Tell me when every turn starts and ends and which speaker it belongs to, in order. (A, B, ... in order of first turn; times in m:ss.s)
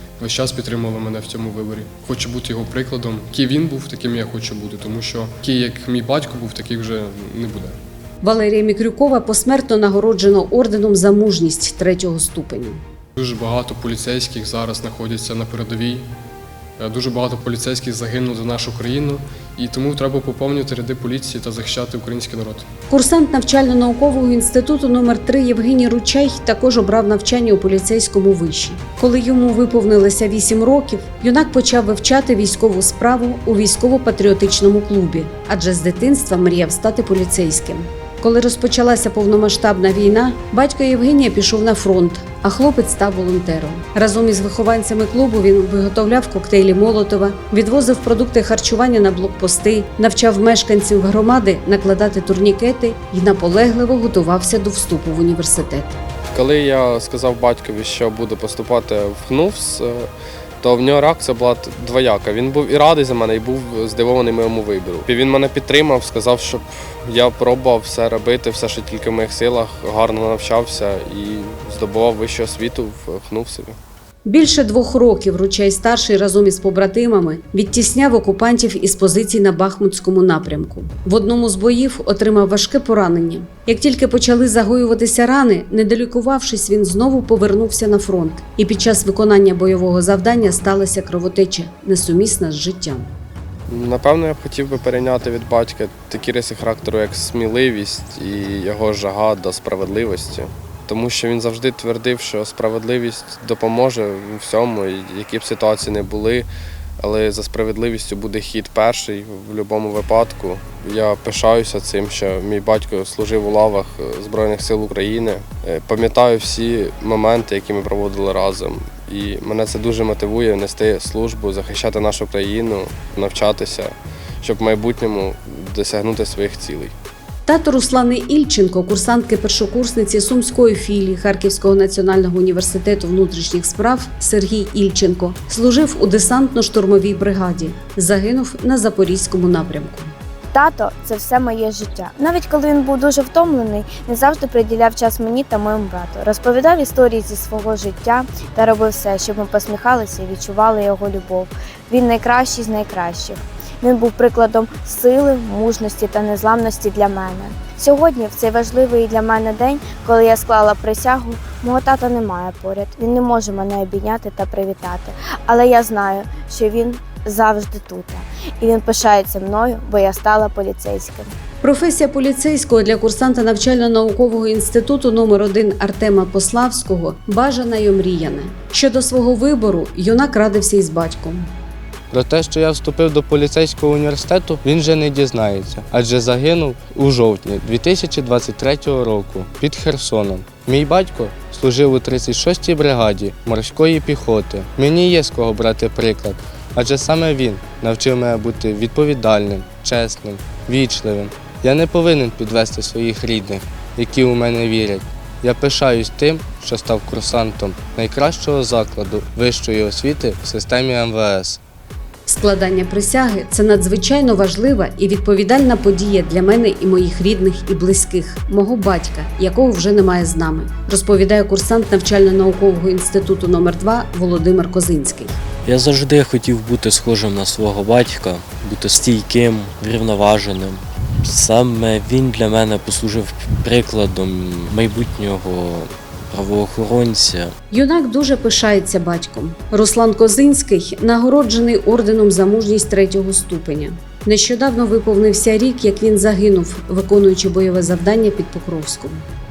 0:00.2-0:07.8 A
0:08.2-0:12.8 B
0:13.2-0:16.1 A
0:16.8-0:22.7 A
0:22.9-0:56.0 B
0:56.3-1:00.1 C
1:00.6-1:13.8 C
1:14.3-1:33.1 B
1:33.7-1:46.5 C
1:47.0-2:06.9 C
2:07.5-2:20.1 B
2:20.5-2:51.3 D
2:51.6-3:01.5 B
3:02.1-3:31.6 E
3:32.3-3:45.4 B
3:45.6-3:57.5 F
3:57.7-4:09.2 B